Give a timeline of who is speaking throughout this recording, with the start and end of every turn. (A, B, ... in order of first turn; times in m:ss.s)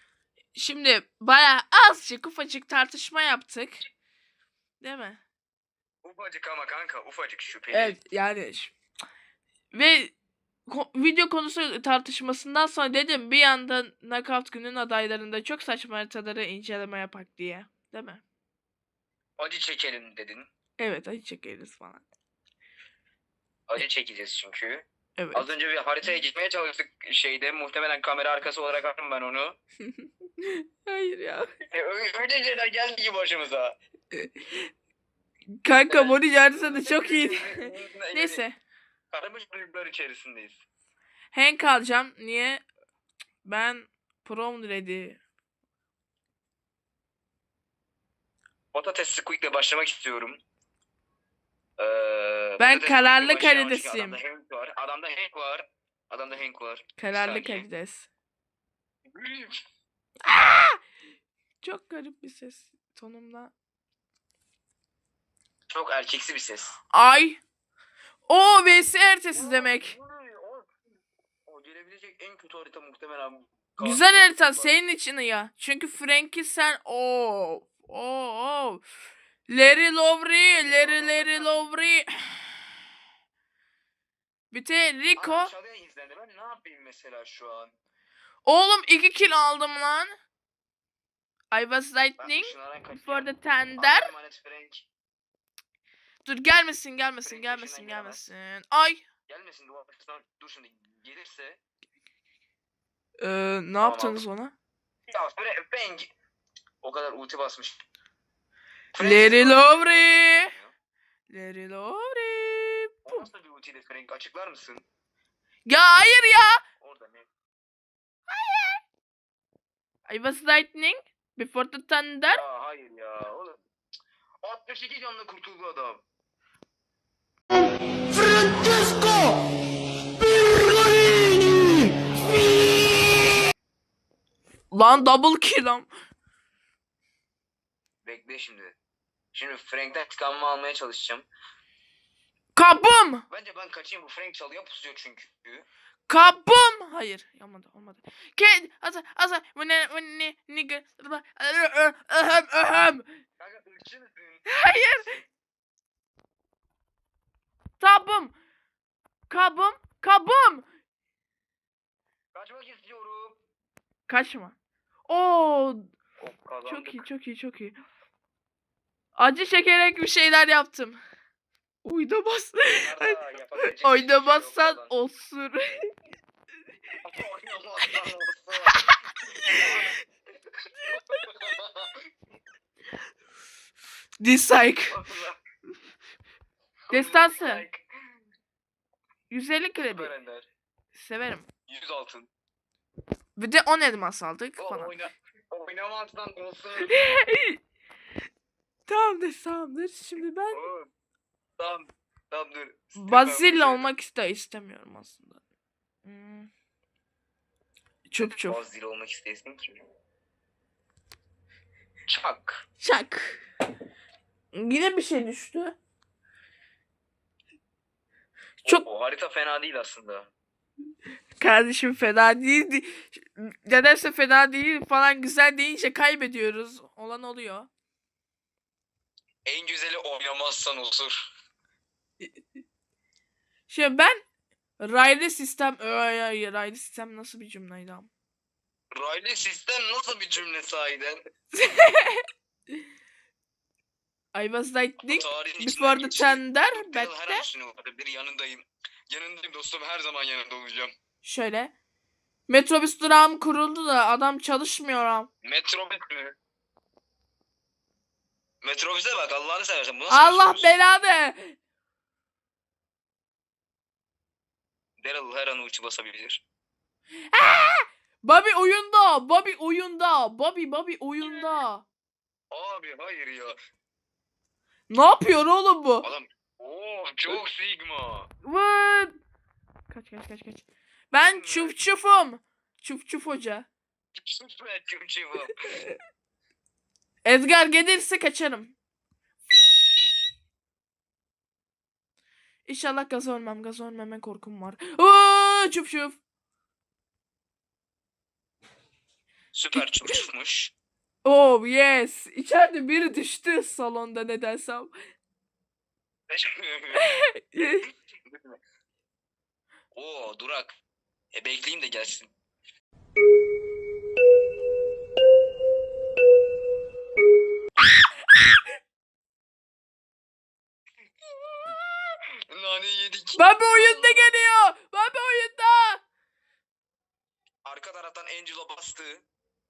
0:00.5-0:03.8 A
0:04.8-0:05.2 A
0:06.0-0:08.0 B
0:07.7-0:08.7 A
0:09.7-0:10.1 A
0:10.7-0:18.2 A
0:19.4-0:20.5 B
0:20.8-0:22.0 A
0:23.7-0:29.6 B
0:25.2-0:25.5 A
0:30.0-0:31.5 A
0:31.7-0:33.8 B
0:34.1-0:34.7 A
0:35.6-0:38.6 A
0:35.9-0:38.4 B
0:39.1-0:40.6 B
0:41.3-0:42.6 A
0:43.4-0:45.2 A
0:48.7-0:50.4 B
0:51.8-0:57.6 B
0:52.6-0:54.2 A
0:57.0-0:58.1 A
0:59.1-0:59.6 B
1:00.2-1:00.8 A
1:01.6-1:03.5 A
1:05.7-1:06.8 B
1:06.9-1:07.4 A
1:08.3-1:09.9 A
1:09.4-1:10.7 B
1:11.5-1:14.7 B
1:13.8-1:18.8 A
1:19.5-1:22.6 A
1:20.4-1:21.6 B
1:24.5-1:25.5 A
1:25.2-1:27.7 B
1:28.4-1:30.1 A
1:31.5-1:34.1 A
1:32.2-1:34.9 B
1:36.2-1:39.0 A
1:37.2-1:38.2 B
1:39.3-1:41.6 B
1:43.2-1:44.5 A
1:43.8-1:44.2 B
1:45.1-1:46.1 B
1:46.8-1:47.8 B
1:48.9-1:50.7 B
1:49.0-1:50.5 A
1:51.3-1:53.2 A
1:53.0-1:54.8 B
1:55.6-1:56.6 A
1:56.8-1:57.2 B
1:58.3-1:58.8 A
2:00.1-2:02.4 A
2:02.3-2:03.6 B
2:04.4-2:06.0 B
2:08.1-2:09.4 C
2:10.4-2:11.7 C
2:14.7-2:15.9 A
2:18.0-2:18.7 B
2:19.3-2:21.2 B
2:22.5-2:23.2 A
2:23.3-2:25.7 B
2:26.1-2:33.0 A
2:33.4-2:34.4 B
2:34.4-2:35.2 A
2:37.8-2:38.3 A
2:39.3-2:40.6 A
2:42.3-2:43.4 B
2:44.1-2:44.5 A
2:45.1-2:45.9 A
2:46.2-2:47.0 B
2:46.6-2:47.8 A
2:49.2-2:51.0 A
2:51.8-2:55.9 A
2:52.7-2:54.9 B
2:57.0-2:58.8 B
2:59.3-3:00.0 A
2:59.5-2:59.9 B
3:00.8-3:01.4 A
3:00.9-3:01.9 B
3:04.2-3:05.1 A
3:04.9-3:05.4 B
3:06.9-3:07.8 B
3:06.9-3:07.6 A
3:09.3-3:10.1 A
3:09.8-3:10.4 B
3:10.9-3:11.5 A
3:11.7-3:12.3 B
3:13.4-3:14.9 A
3:14.6-3:16.9 B
3:16.8-3:17.6 A
3:18.9-3:20.6 A
3:20.5-3:20.9 B
3:21.6-3:23.9 B
3:23.0-3:25.4 A
3:26.0-3:26.5 A
3:28.1-3:28.6 A
3:28.2-3:29.8 B
3:32.1-3:32.6 B
3:32.8-3:33.4 A
3:34.5-3:35.7 A
3:38.6-3:40.3 B
3:41.4-3:47.7 A
3:49.4-3:51.2 B
3:53.7-3:54.2 A
3:54.8-3:58.1 A
3:58.9-4:01.2 B
4:01.5-4:02.2 A
4:04.3-4:07.4 A
4:05.1-4:10.9 B
4:11.2-4:11.7 A
4:12.5-4:15.3 A
4:15.4-4:16.3 B
4:18.6-4:20.7 B
4:20.1-4:21.6 A
4:25.0-4:26.4 B
4:27.3-4:31.8 A
4:32.5-4:33.5 B
4:34.9-4:36.1 A
4:36.0-4:38.3 B
4:38.4-4:39.1 A
4:39.9-4:43.7 A
4:41.2-4:41.7 B
4:44.2-4:45.7 B
4:45.6-4:46.0 A
4:47.2-4:48.7 A
4:52.7-4:56.2 A
4:59.5-5:00.7 B
5:01.2-5:04.9 A
5:06.3-5:07.0 B
5:06.9-5:07.9 A
5:08.3-5:08.6 B
5:09.9-5:10.7 B
5:11.3-5:12.3 B
5:22.5-5:24.3 B
5:23.4-5:26.0 A
5:27.6-5:29.2 B